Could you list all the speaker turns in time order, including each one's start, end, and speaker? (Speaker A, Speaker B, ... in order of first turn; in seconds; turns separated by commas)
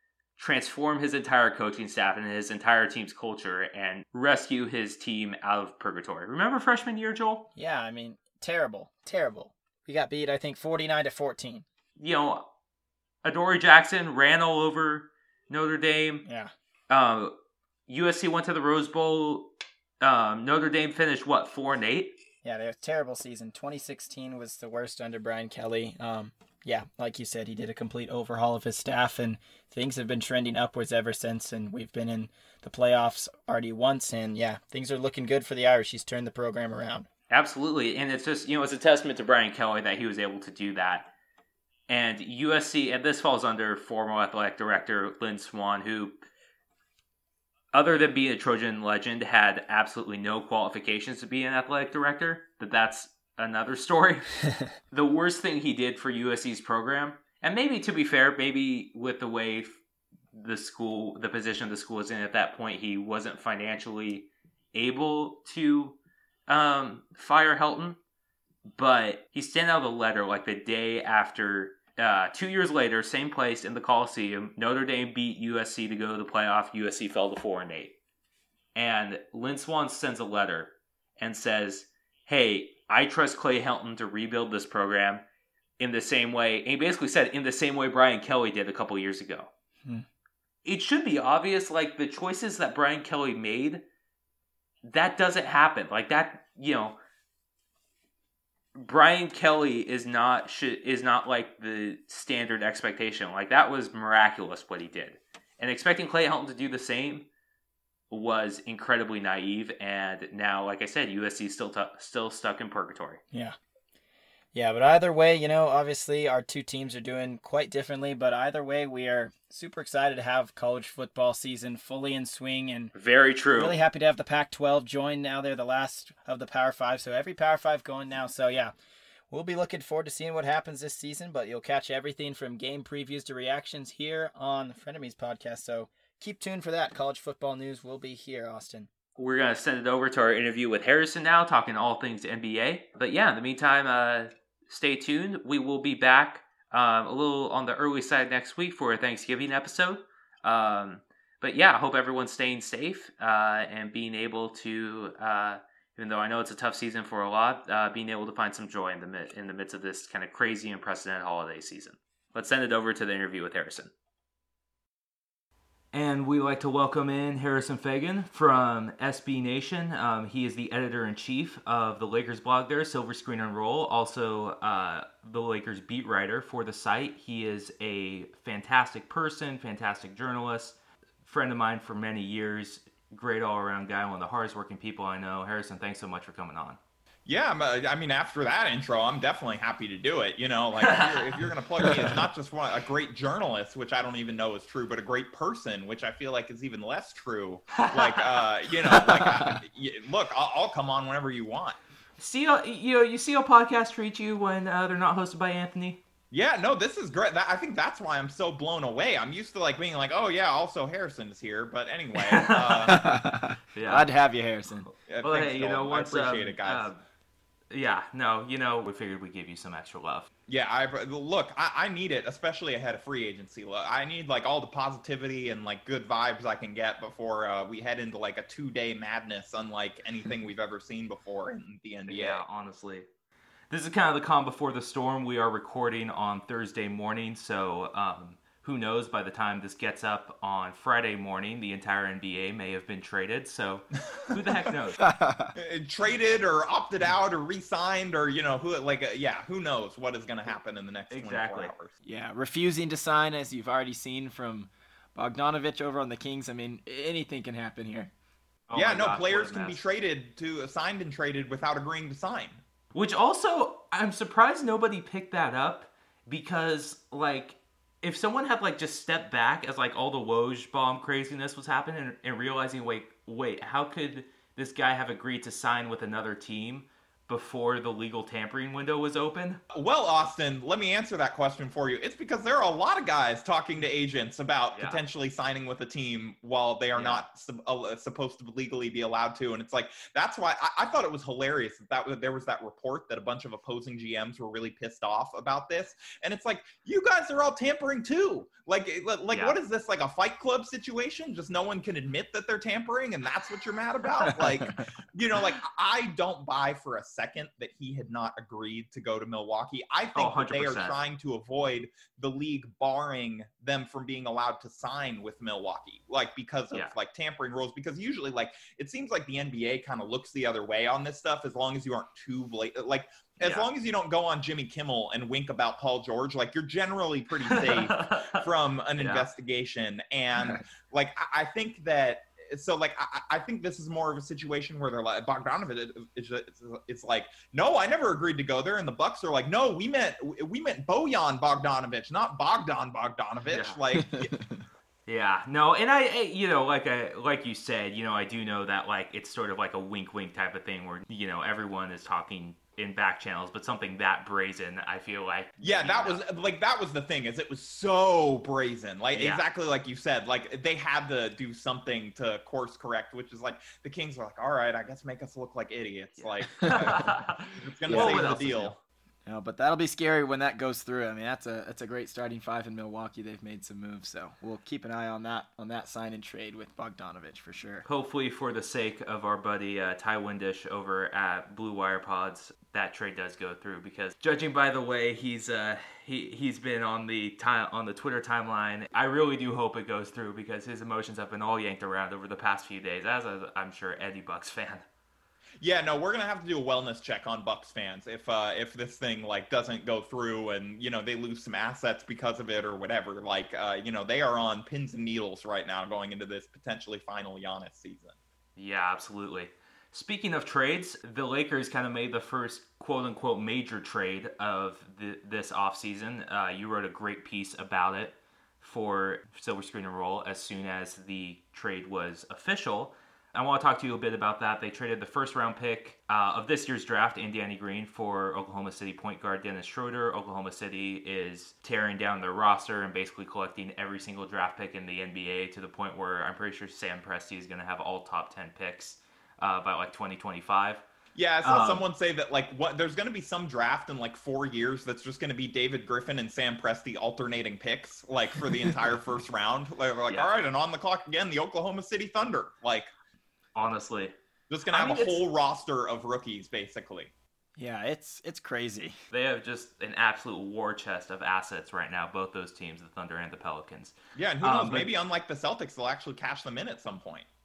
Speaker A: 0.4-7.5, Speaker B: 7.6-11.7, Speaker A: 12.0-12.5, Speaker A: 13.2-16.3, Speaker B: 16.2-16.5, Speaker A: 16.9-17.4, Speaker A: 17.9-22.2, Speaker B: 22.4-37.1, Speaker A: 37.3-41.1, Speaker A: 41.9-46.2, Speaker A: 47.7-54.4, Speaker A: 54.9-59.8, Speaker A: 60.3-68.0, Speaker A: 68.8-78.0, Speaker A: 78.8-85.2, Speaker A: 85.8-89.5, Speaker A: 90.7-93.8, Speaker A: 94.8-97.0, Speaker A: 98.8-107.3, Speaker A: 108.1-113.2, Speaker B: 114.5-122.9, Speaker A: 122.9-123.8, Speaker B: 123.6-128.7, Speaker B: 129.3-138.9, Speaker A: 139.2-163.9, Speaker A: 165.9-186.8, Speaker C: 187.3-201.8, Speaker A: 190.8-191.3, Speaker B: 198.9-199.6, Speaker A: 202.2-206.0, Speaker C: 206.3-213.1, Speaker A: 212.2-213.1, Speaker B: 212.9-214.9, Speaker A: 213.7-214.1, Speaker A: 214.8-217.0, Speaker C: 215.1-216.9, Speaker A: 217.7-220.3, Speaker C: 220.5-232.4, Speaker A: 232.1-233.1, Speaker A: 233.7-245.0, Speaker B: 245.0-245.5, Speaker C: 245.6-252.0, Speaker A: 251.1-251.7, Speaker B: 252.1-258.1, Speaker A: 258.7-259.8, Speaker C: 258.7-262.6, Speaker A: 262.9-279.6, Speaker C: 279.7-344.4, Speaker A: 284.7-285.0, Speaker A: 286.9-287.2, Speaker A: 299.3-299.6, Speaker B: 304.4-304.8, Speaker A: 310.1-311.0, Speaker A: 323.4-323.7, Speaker A: 327.5-328.4, Speaker A: 329.0-329.3, Speaker A: 343.5-343.8, Speaker B: 343.9-344.3, Speaker A: 345.1-356.2, Speaker C: 355.6-368.7, Speaker A: 359.1-359.4, Speaker A: 366.2-368.8, Speaker B: 367.9-368.5, Speaker B: 369.3-377.9, Speaker A: 377.9-394.9, Speaker C: 395.6-408.2, Speaker A: 408.6-440.8, Speaker C: 441.1-452.9, Speaker A: 441.4-441.8, Speaker A: 453.6-454.1, Speaker C: 454.5-457.1, Speaker A: 454.7-455.2, Speaker B: 457.6-459.0, Speaker A: 459.1-464.9, Speaker C: 464.2-467.3